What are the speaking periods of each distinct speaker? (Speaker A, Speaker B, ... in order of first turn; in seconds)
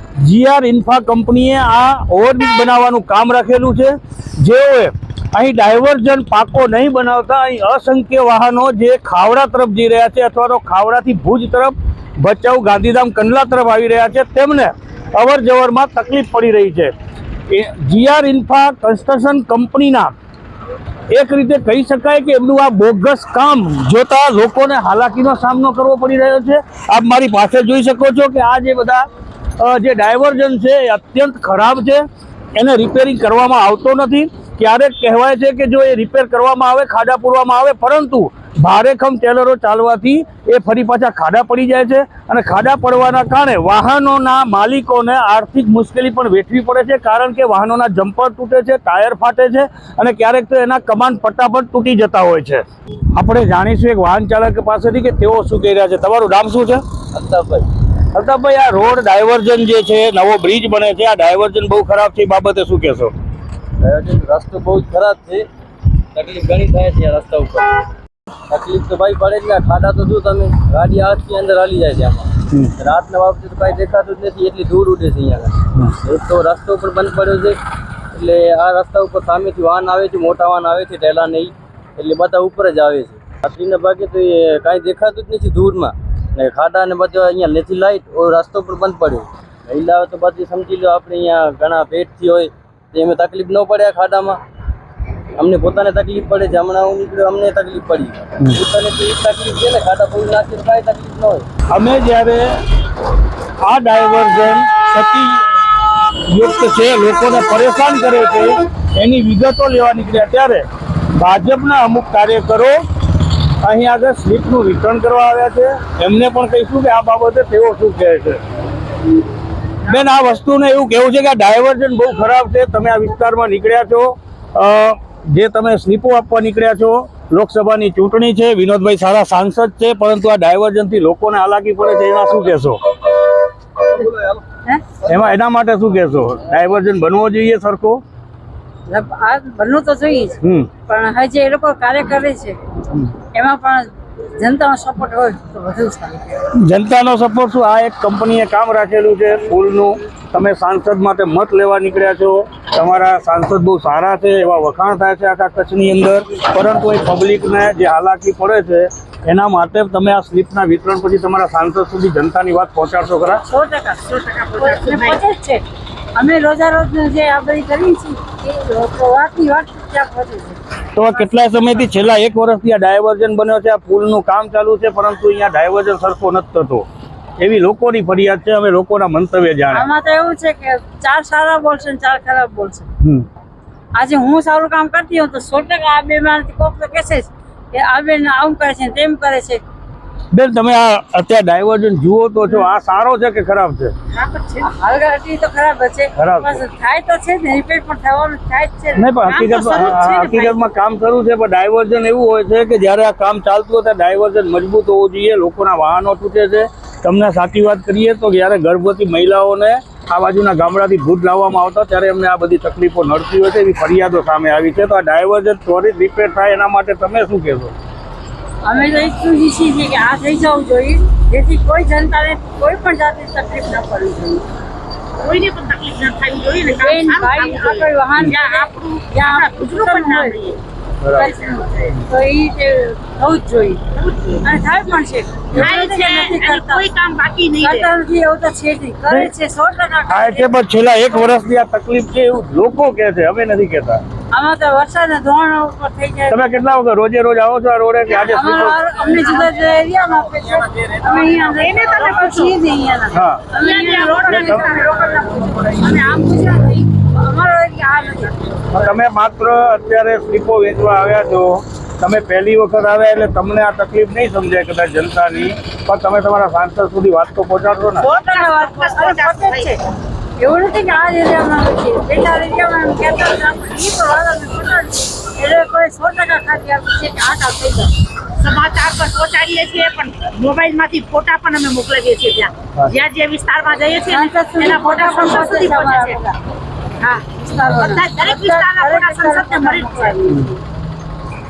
Speaker A: 0.2-16.9, 17.5-20.1, 21.1-29.1, 29.6-32.0, 32.5-56.8, 58.1-63.1, 101.7-102.6, 103.6-105.5, 106.2-112.8, 113.6-118.4, 119.8-132.8, 135.0-138.0, 140.4-140.7, 146.5-163.4, 170.9-176.8, 177.4-179.9, 183.0-183.3, 190.3-193.9, 196.2-196.6, 198.9-217.7, 231.0-231.3, 240.1-244.0, 246.3-248.9, 253.1-253.4, 254.3-254.7, 258.7-268.1
Speaker B: 57.1-57.7, 63.8-65.5, 66.1-67.8, 68.5-77.6, 78.1-94.4, 95.4-101.5
Speaker C: 138.9-142.6, 143.3-146.4, 163.4-170.6, 179.7-182.9, 183.9-189.6, 194.5-199.1, 218.6-224.4, 226.7-230.4, 231.1-233.8, 234.4-236.8, 237.6-240.5, 244.3-246.4, 248.3-258.7, 268.1-269.8, 270.4-277.9, 284.1-286.4, 287.3-290.6
Speaker D: 164.1-165.2, 194.2-194.6, 199.2-200.6, 225.2-230.6, 233.9-234.4, 235.6-237.9, 251.4-252.5, 253.5-255.6, 268.0-269.7, 278.3-286.2, 287.0-290.4